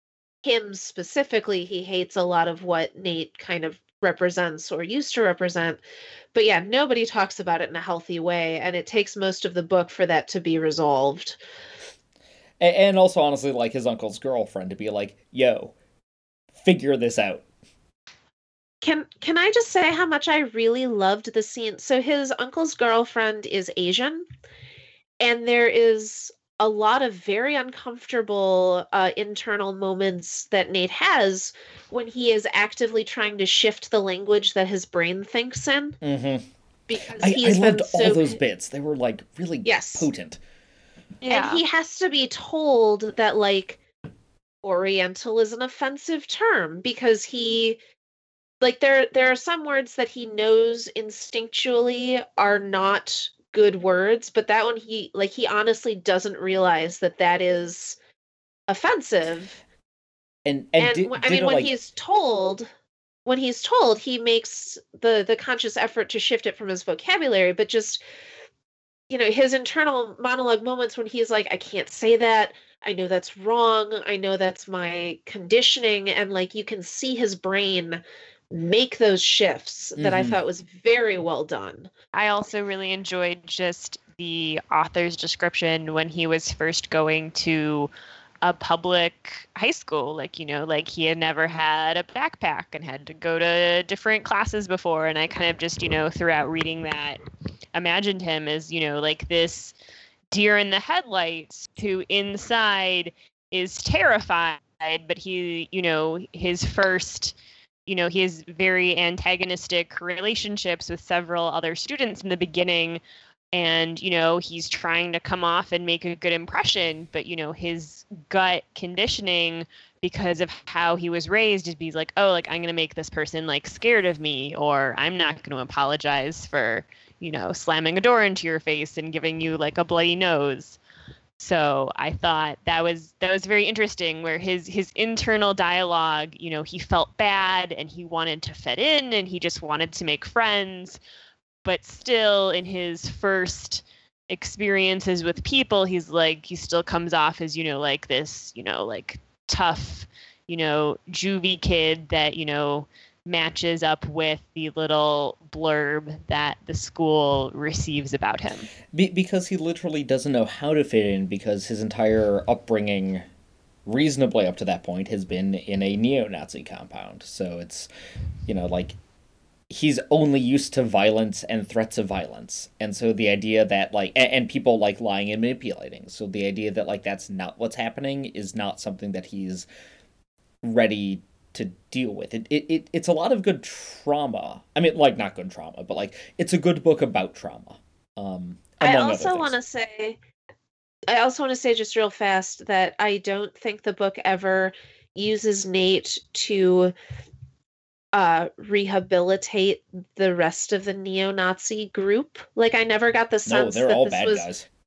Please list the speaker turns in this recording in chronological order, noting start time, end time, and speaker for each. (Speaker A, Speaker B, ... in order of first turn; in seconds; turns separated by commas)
Speaker A: 0.4-5.8, Speaker A: 6.3-11.4, Speaker B: 12.6-15.7, Speaker B: 16.5-17.4, Speaker A: 18.8-24.2, Speaker A: 25.2-36.0, Speaker B: 36.0-36.5, Speaker A: 36.9-38.4, Speaker B: 37.2-40.4, Speaker A: 39.6-40.1, Speaker C: 41.2-41.6, Speaker A: 41.3-43.8, Speaker A: 44.6-47.8, Speaker A: 48.6-58.0, Speaker A: 58.7-59.6, Speaker B: 60.5-61.7, Speaker A: 60.8-62.7, Speaker A: 63.2-68.0, Speaker A: 69.1-81.9, Speaker B: 80.0-80.4, Speaker C: 82.1-87.9, Speaker C: 88.4-97.2, Speaker C: 97.7-99.7, Speaker C: 100.3-113.0, Speaker C: 113.5-130.8, Speaker C: 131.4-141.0, Speaker C: 141.6-158.7, Speaker B: 158.9-163.2, Speaker B: 163.8-167.9, Speaker B: 168.5-169.0, Speaker B: 169.7-179.7, Speaker B: 180.6-189.5, Speaker A: 188.8-190.2, Speaker A: 191.1-196.9, Speaker A: 198.1-204.5, Speaker B: 203.4-204.7